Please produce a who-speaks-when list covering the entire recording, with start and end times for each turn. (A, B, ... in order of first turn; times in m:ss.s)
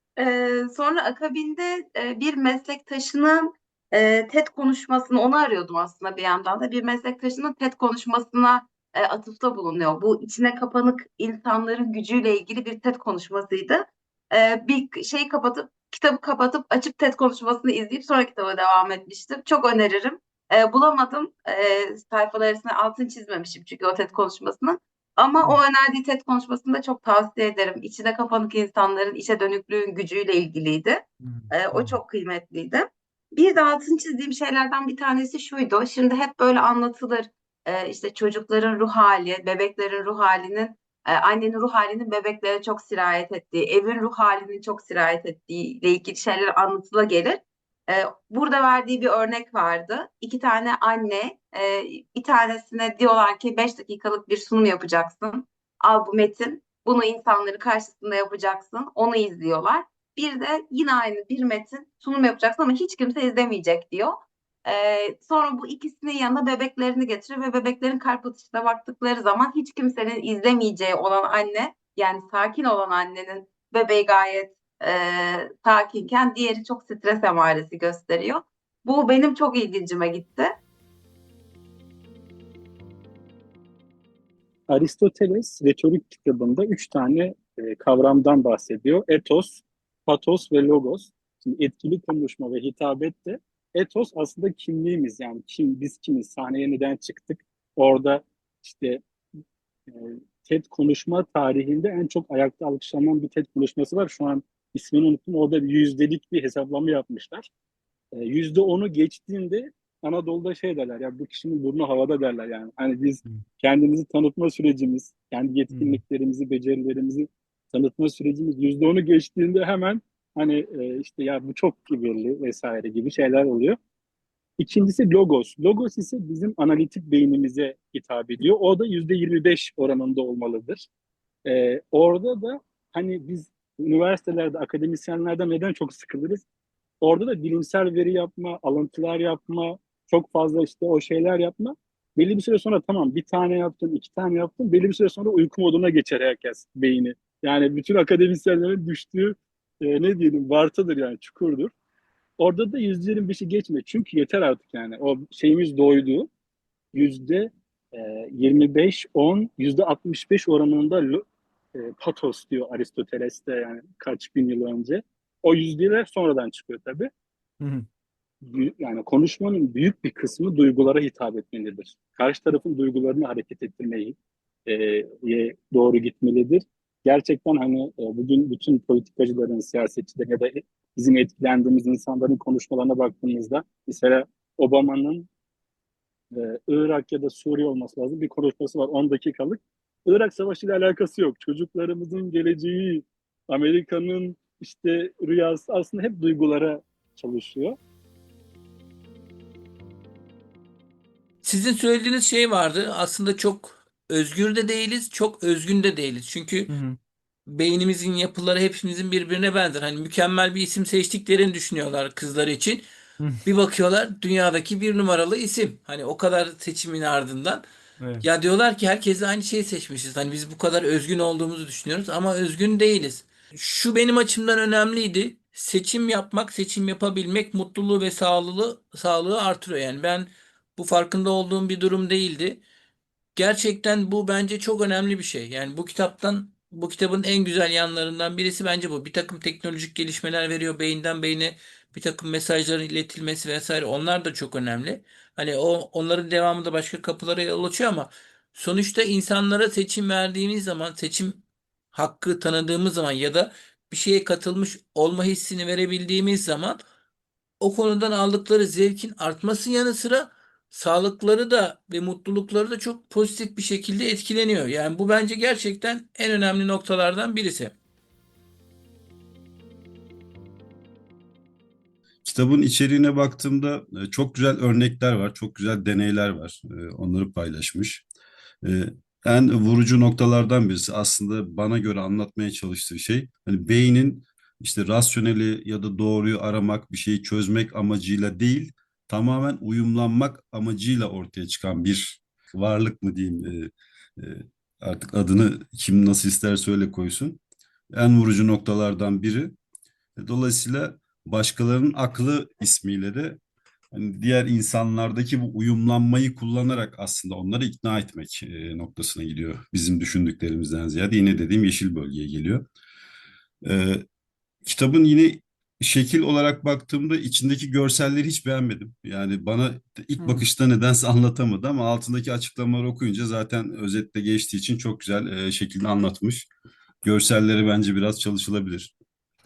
0:00.2-1:20.6 A
0:31.2-0:32.0 B
1:24.7-1:39.0 C
1:39.9-1:47.5 C
1:48.2-2:03.8 C
1:55.7-1:56.0 B
2:04.6-2:10.9 C
2:11.5-2:16.4 C
2:17.0-2:31.7 C
2:32.4-2:36.3 C
2:36.9-2:41.2 C
2:41.8-2:47.1 C
2:47.6-2:47.9 B
2:48.4-2:54.2 C
2:54.7-3:05.3 C
3:06.3-3:17.8 C
3:21.4-3:26.7 D
3:26.7-3:27.0 B
3:27.5-3:32.8 D
3:33.4-3:37.6 D
3:38.0-3:38.3 B
3:38.2-3:52.6 D
3:53.4-4:11.4 D
4:11.9-4:16.8 D
4:17.6-4:27.8 D
4:32.2-4:38.0 E
4:38.6-4:57.4 E
4:57.9-4:59.6 E
5:00.2-5:03.4 E
5:03.9-5:12.6 E
5:13.6-5:14.0 E
5:14.6-5:26.5 E
5:27.0-5:28.9 E